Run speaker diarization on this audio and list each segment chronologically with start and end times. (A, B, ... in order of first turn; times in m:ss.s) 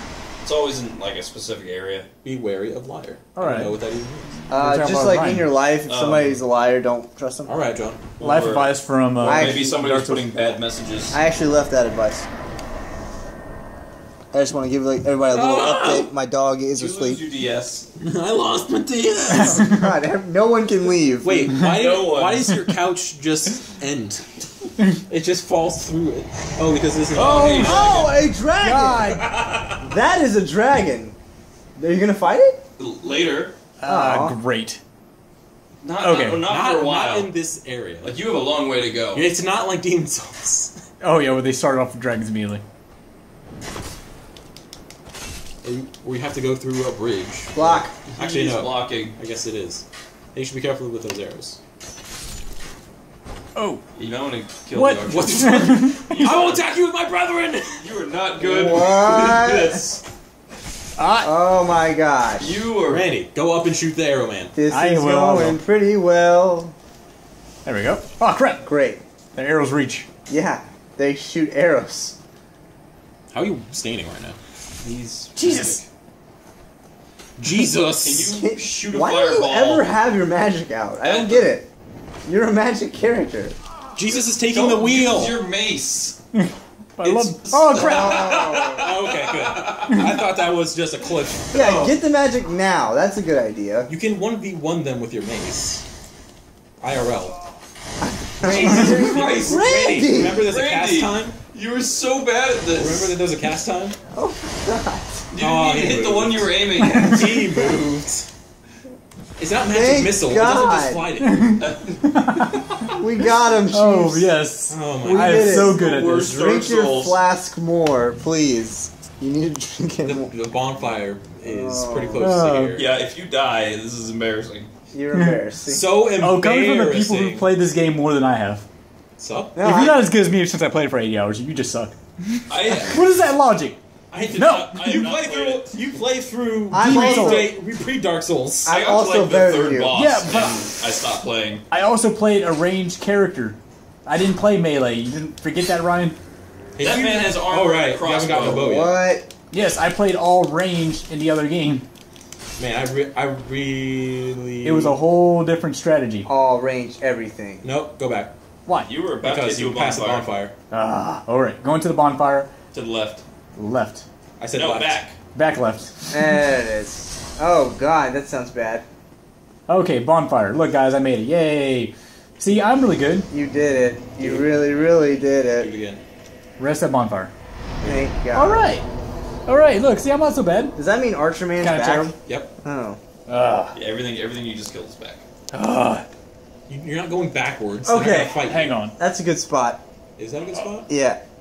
0:00.4-0:02.1 A
0:02.2-0:04.3 B
0:03.4-0:03.8 C
0:04.5-0:05.5 C
0:04.5-0:07.5 D
0:05.9-0:06.4 A
0:07.5-0:08.1 B
0:08.2-0:11.2 A
0:08.2-0:10.6 C
0:09.2-0:09.7 D
0:11.1-0:12.2 D
0:14.3-0:17.2 D
0:15.3-0:16.1 B
0:16.8-0:17.9 A
0:18.0-0:19.7 B
0:19.3-0:21.6 D
0:19.4-0:19.9 C
0:21.2-0:24.3 B
0:21.6-0:22.5 A
0:25.1-0:27.9 B
0:27.1-0:28.1 A
0:27.2-0:29.3 C
0:27.6-0:29.2 D
0:29.1-0:29.9 A
0:29.8-0:31.2 D
0:31.8-0:32.6 D
0:32.8-0:33.5 A
0:33.8-0:34.8 C
0:33.8-0:34.4 D
0:35.8-0:37.3 A
0:36.0-0:36.5 C
0:36.5-0:38.2 B
0:38.0-0:39.3 A
0:39.1-0:40.8 B
0:41.0-0:42.6 C
0:45.6-0:51.6 B
0:47.5-0:47.9 D
0:48.1-0:49.2 A
0:53.6-0:53.8 C
0:54.0-0:56.7 A
0:54.7-0:56.4 C
0:55.1-0:57.9 B
0:57.8-1:00.0 A
0:58.4-0:59.8 D
1:01.0-1:01.3 C
1:01.2-1:02.5 D
1:02.4-1:03.1 A
1:02.9-1:04.5 B
1:04.5-1:06.7 D
1:04.7-1:05.6 C
1:07.6-1:08.7 C
1:08.6-1:09.0 D
1:09.4-1:10.1 C
1:10.3-1:12.2 D
1:13.3-1:14.4 B
1:14.8-1:15.8 A
1:15.4-1:15.8 C
1:17.4-1:18.3 B
1:17.9-1:19.9 A
1:18.3-1:21.7 D
1:21.0-1:21.5 A
1:22.3-1:23.6 D
1:24.0-1:25.4 B
1:24.0-1:26.2 A
1:26.3-1:28.3 C
1:27.0-1:30.1 A
1:27.7-1:28.9 D
1:28.7-1:31.5 B
1:31.5-1:32.0 A
1:31.5-1:33.9 D
1:33.9-1:35.8 B
1:36.8-1:37.4 B
1:38.0-1:40.4 D
1:38.4-1:39.7 A
1:38.5-1:41.4 B
1:40.2-1:43.2 A
1:42.7-1:44.0 B
1:44.1-1:45.1 D
1:45.3-1:47.4 A
1:45.4-1:48.3 B
1:46.8-1:47.2 C
1:49.4-1:51.6 B
1:49.7-1:51.0 D
1:51.2-1:52.5 C
1:51.6-1:52.9 A
1:53.0-1:54.3 D
1:53.7-1:56.4 C
1:54.7-1:55.6 B
1:55.0-2:00.3 D
1:55.3-1:57.2 A
2:00.0-2:02.9 B
2:01.4-2:02.3 D
2:02.2-2:02.9 C
2:02.7-2:04.7 A
2:04.9-2:05.9 D
2:05.7-2:07.5 B
2:06.2-2:08.6 C
2:09.2-2:09.6 B
2:09.6-2:10.0 D
2:09.6-2:13.8 C
2:12.5-2:13.0 A
2:14.1-2:15.7 A
2:14.4-2:14.8 C
2:14.8-2:18.7 B
2:16.7-2:17.5 D
2:16.7-2:17.5 C
2:18.6-2:20.0 D
2:18.7-2:21.6 A
2:19.9-2:20.6 C
2:21.7-2:26.2 C
2:26.8-2:29.0 B
2:26.8-2:28.7 A
2:28.3-2:29.3 D
2:29.5-2:31.8 C
2:32.6-2:35.0 B
2:34.6-2:36.3 C
2:36.2-2:37.7 D
2:37.6-2:38.3 B
2:38.8-2:40.3 A
2:39.2-2:40.5 B
2:40.7-2:42.5 C
2:42.7-2:43.2 A
2:43.6-2:44.0 C
2:44.4-2:45.0 B
2:44.5-2:45.2 A
2:45.3-2:46.3 C
2:46.1-2:48.8 D
2:49.7-2:53.3 C
2:53.3-2:55.7 D
2:54.2-2:54.5 B
2:55.6-2:56.0 B
2:56.6-2:57.3 C
2:57.8-2:58.1 B
2:57.8-2:58.6 D
2:58.3-2:58.9 C
2:59.5-3:00.8 C
3:00.8-3:03.0 D
3:01.6-3:02.1 C
3:03.3-3:03.8 C
3:03.7-3:05.2 A
3:05.5-3:06.1 C
3:06.7-3:08.8 B
3:07.8-3:08.4 D
3:08.4-3:09.0 C
3:09.0-3:09.8 D
3:10.2-3:10.9 B
3:10.9-3:11.2 D